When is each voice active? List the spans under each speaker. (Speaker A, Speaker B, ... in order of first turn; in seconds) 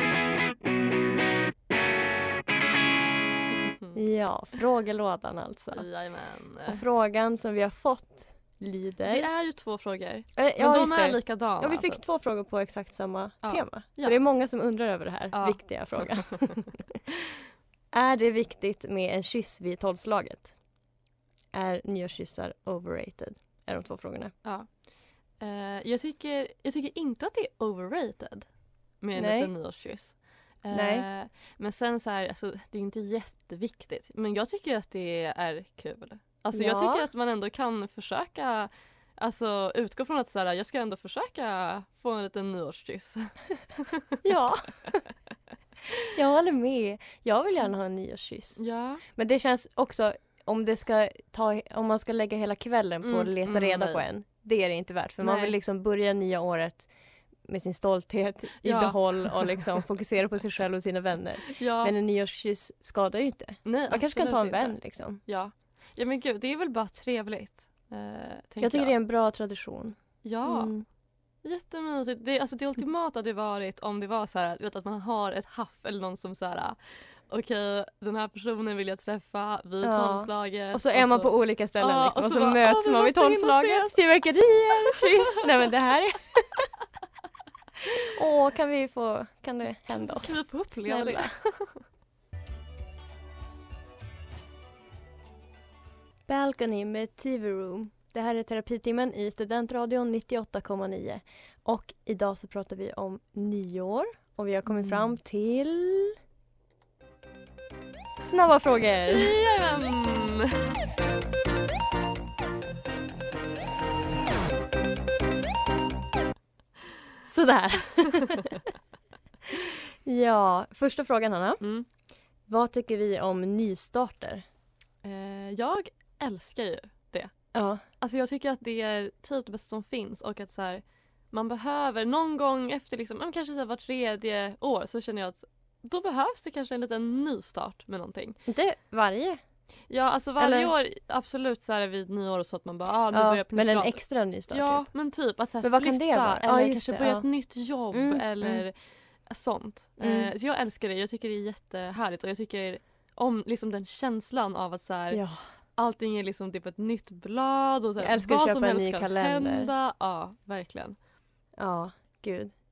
Speaker A: 3.9-5.9, 6.7-9.3, 10.4-16.9, 17.9-20.5, 21.5-24.3, 29.1-29.5, 30.7-31.1, 36.5-37.1, 44.2-45.0, 46.1-48.6, 49.1-56.9, 57.5-65.2, 68.6-70.8, 79.8-86.6, 87.9-91.3, 96.3-106.2, 108.2-109.3, 117.2-118.6, 119.5-121.6, 122.5-124.4, 127.5-127.8, 138.5-139.4, 140.4-140.7, 143.1-144.9, 145.6-147.3, 147.9-148.6, 150.0-150.3, 155.1-155.4, 158.0-159.7, 161.6-162.5
Speaker B: 5.7-6.8, 9.1-12.0, 13.4-14.2, 15.3-16.4, 25.4-28.5, 29.0-43.3, 48.6-49.0, 53.0-54.0, 55.2-55.5, 58.6-59.5, 61.5-61.9, 63.6-68.9, 70.2-70.7, 71.4-76.8, 77.3-84.0, 84.7-85.4, 89.9-91.8, 104.7-105.1, 109.1-110.6, 121.6-121.8, 125.0-127.3, 128.0-138.4, 139.9-144.0, 144.5-148.8, 149.3-155.2, 155.8-160.9